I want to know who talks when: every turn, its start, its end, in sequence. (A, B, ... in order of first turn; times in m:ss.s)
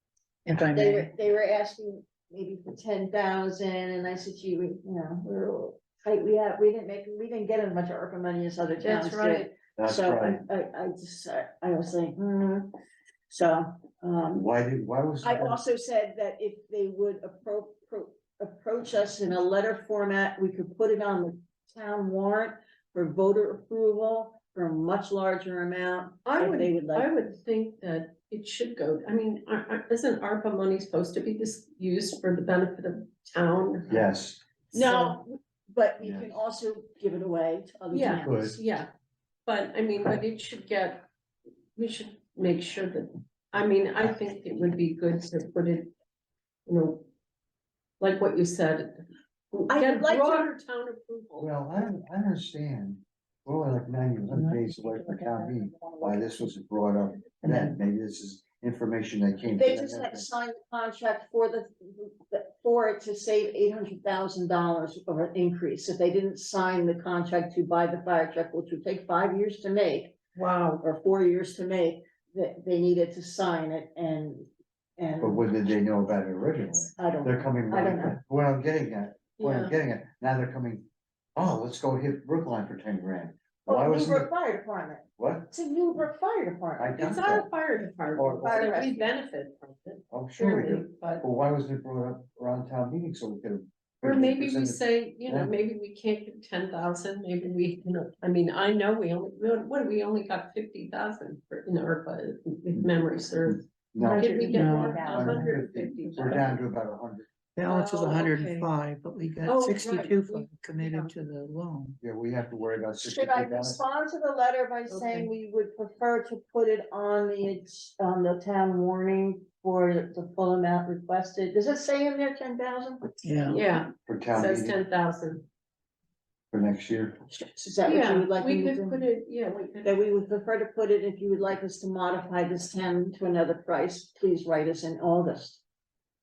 0:00.5-0:01.1 A
0:00.7-0:12.7 B
0:08.8-0:09.5 C
0:09.8-0:10.4 D
0:13.3-0:14.4 B
0:14.3-0:15.6 D
0:15.2-0:27.1 B
0:26.2-0:34.0 C
0:33.9-0:35.1 D
0:34.7-0:38.6 B
0:36.0-0:36.3 D
0:37.9-0:38.9 C
0:38.2-0:38.6 D
0:39.5-0:41.1 C
0:41.8-0:45.9 C
0:46.7-0:47.1 C
0:48.0-0:51.6 C
0:49.7-0:50.5 B
0:51.4-1:00.3 D
0:54.3-0:56.4 A
0:57.4-0:57.8 A
0:59.6-1:10.2 B
1:10.4-1:10.8 C
1:10.8-1:15.5 B
1:15.2-1:24.3 D
1:16.9-1:18.2 B
1:19.4-1:19.8 C
1:23.7-1:27.2 B
1:25.2-1:25.5 D
1:26.8-1:27.5 D
1:27.0-1:31.2 C
1:28.2-1:28.8 D
1:28.4-1:29.1 B
1:30.1-1:35.5 D
1:34.0-1:46.6 C
1:43.5-1:44.4 D
1:44.0-1:45.4 B
1:44.5-1:45.0 A
1:45.0-1:47.3 D
1:47.6-1:52.0 A
1:47.7-1:48.7 C
1:49.5-1:51.1 C
1:52.0-1:53.8 D
1:53.0-2:03.1 B
1:54.9-1:55.3 C
2:03.2-2:03.6 A
2:03.5-2:05.5 C
2:04.1-2:04.8 D
2:06.5-2:07.2 D
2:07.3-2:09.0 B
2:07.8-2:10.0 C
2:09.8-2:15.6 B